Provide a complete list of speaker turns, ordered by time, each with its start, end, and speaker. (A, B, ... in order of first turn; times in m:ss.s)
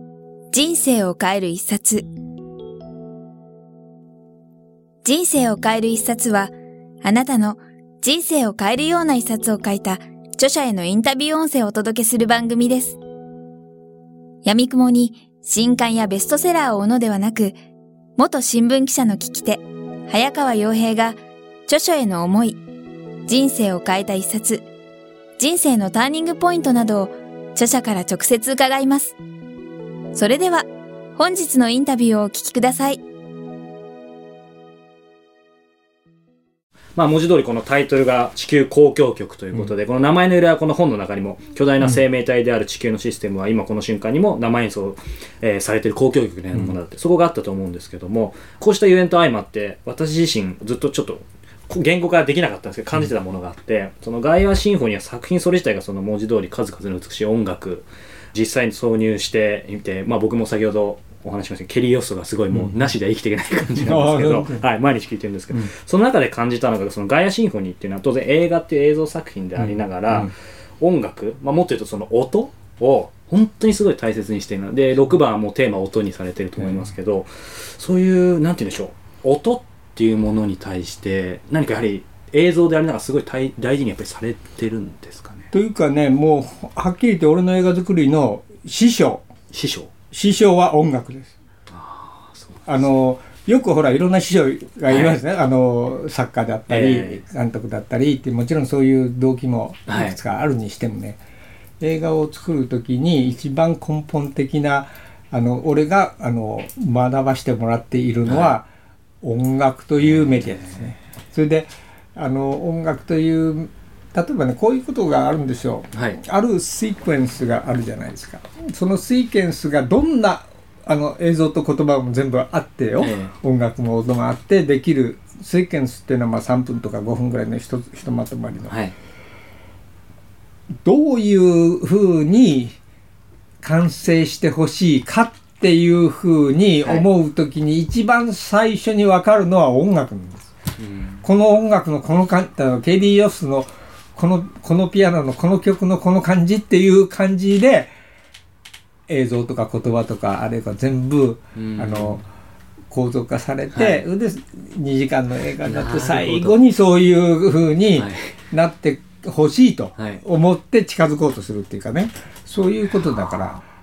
0:00.5-0:02.1 A
0:05.0-0:13.0 A
0:14.4-0:17.6 A
0:18.2-0:22.6 A
0:23.3-0:24.7 A
0:25.4-0:29.1 A
0:30.1-0:33.0 A
0:37.0-1:25.5 B
1:02.5-1:02.9 C
1:03.7-1:04.6 C
1:09.6-1:10.3 C
1:16.6-1:16.9 C
1:25.5-1:29.2 C
1:29.5-1:29.9 B
1:30.1-1:31.3 C
1:31.7-1:32.9 B
1:32.7-1:41.2 C
1:34.9-1:35.2 B
1:36.7-1:37.2 B
1:39.9-1:40.2 B
1:41.8-1:48.7 C
1:48.2-1:48.6 B
1:49.2-2:08.7 C
1:50.0-1:50.9 B
1:55.9-1:56.2 B
2:03.0-2:03.3 B
2:08.7-2:08.9 B
2:10.8-2:12.8 C
2:13.6-2:20.5 C
2:20.8-2:21.2 B
2:21.2-2:27.9 C
2:29.1-2:32.2 C
2:31.6-2:32.2 B
2:32.9-2:43.6 C
2:33.7-2:34.0 B
2:35.6-2:36.6 B
2:37.9-2:38.3 B
2:40.0-2:40.2 B